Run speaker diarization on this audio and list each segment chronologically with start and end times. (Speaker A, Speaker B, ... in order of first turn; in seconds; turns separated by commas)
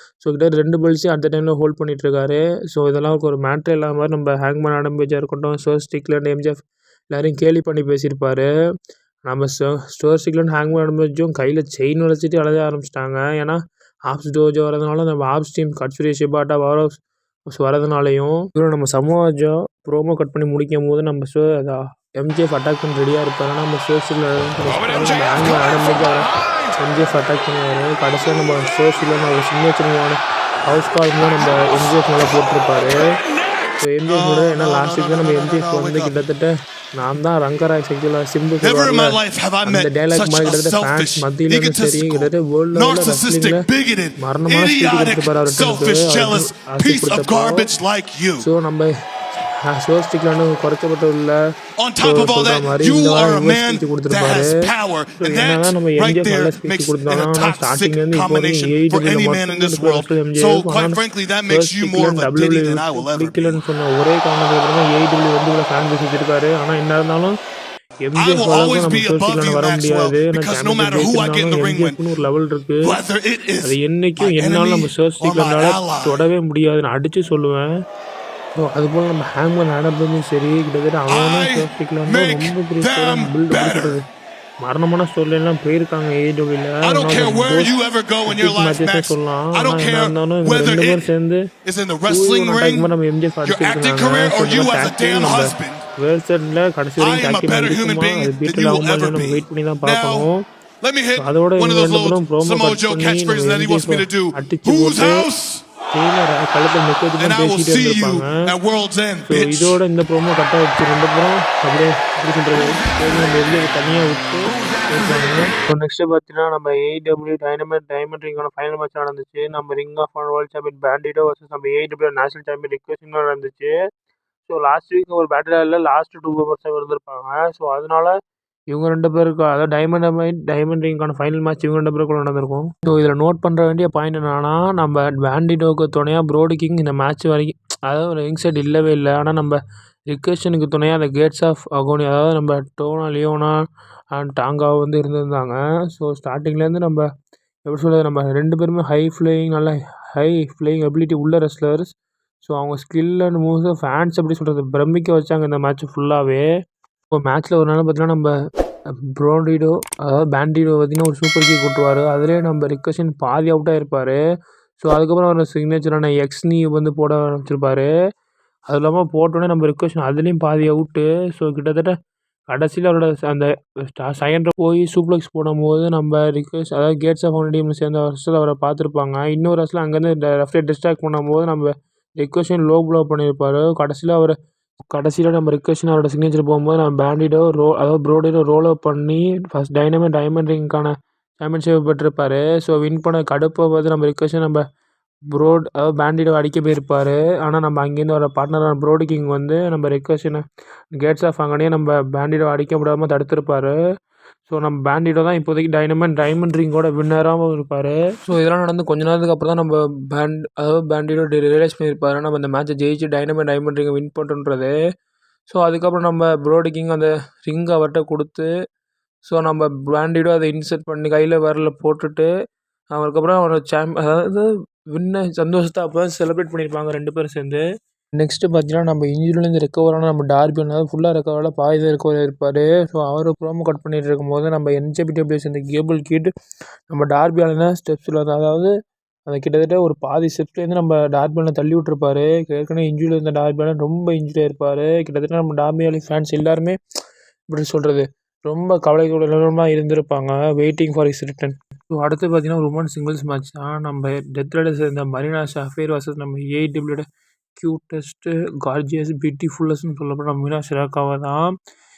Speaker A: 0.2-8.5, Speaker A: 9.2-13.6, Speaker A: 14.1-33.0, Speaker A: 33.8-43.6, Speaker B: 34.0-36.2, Speaker B: 38.6-48.5, Speaker A: 44.2-47.7, Speaker A: 48.4-48.9, Speaker A: 49.6-51.4, Speaker B: 51.8-63.6, Speaker A: 52.0-54.5, Speaker A: 55.2-67.3, Speaker A: 68.0-73.0, Speaker B: 68.1-72.0, Speaker B: 72.8-76.2, Speaker A: 73.6-77.7, Speaker A: 78.6-84.0, Speaker B: 81.1-84.0, Speaker A: 84.6-91.4, Speaker B: 86.8-91.1, Speaker B: 91.6-92.9, Speaker A: 92.1-100.4, Speaker B: 93.4-95.9, Speaker B: 97.0-100.3, Speaker B: 100.8-105.6, Speaker A: 101.2-105.2, Speaker A: 105.9-108.5, Speaker B: 107.2-109.8, Speaker A: 109.3-123.7, Speaker A: 124.5-128.2, Speaker A: 128.7-139.6, Speaker A: 140.1-143.5, Speaker A: 144.1-147.1, Speaker A: 147.7-151.9, Speaker A: 152.4-156.4, Speaker A: 157.2-158.3, Speaker A: 159.2-164.2, Speaker A: 164.8-167.9, Speaker A: 168.7-171.9, Speaker A: 172.5-184.3, Speaker A: 184.9-194.6, Speaker A: 195.3-200.4, Speaker A: 201.0-203.8, Speaker A: 204.5-214.7, Speaker A: 215.5-218.5, Speaker A: 219.3-222.3, Speaker A: 222.9-227.6, Speaker A: 228.2-236.3, Speaker A: 236.9-238.7, Speaker A: 239.3-246.8, Speaker A: 247.5-257.0, Speaker A: 257.6-261.5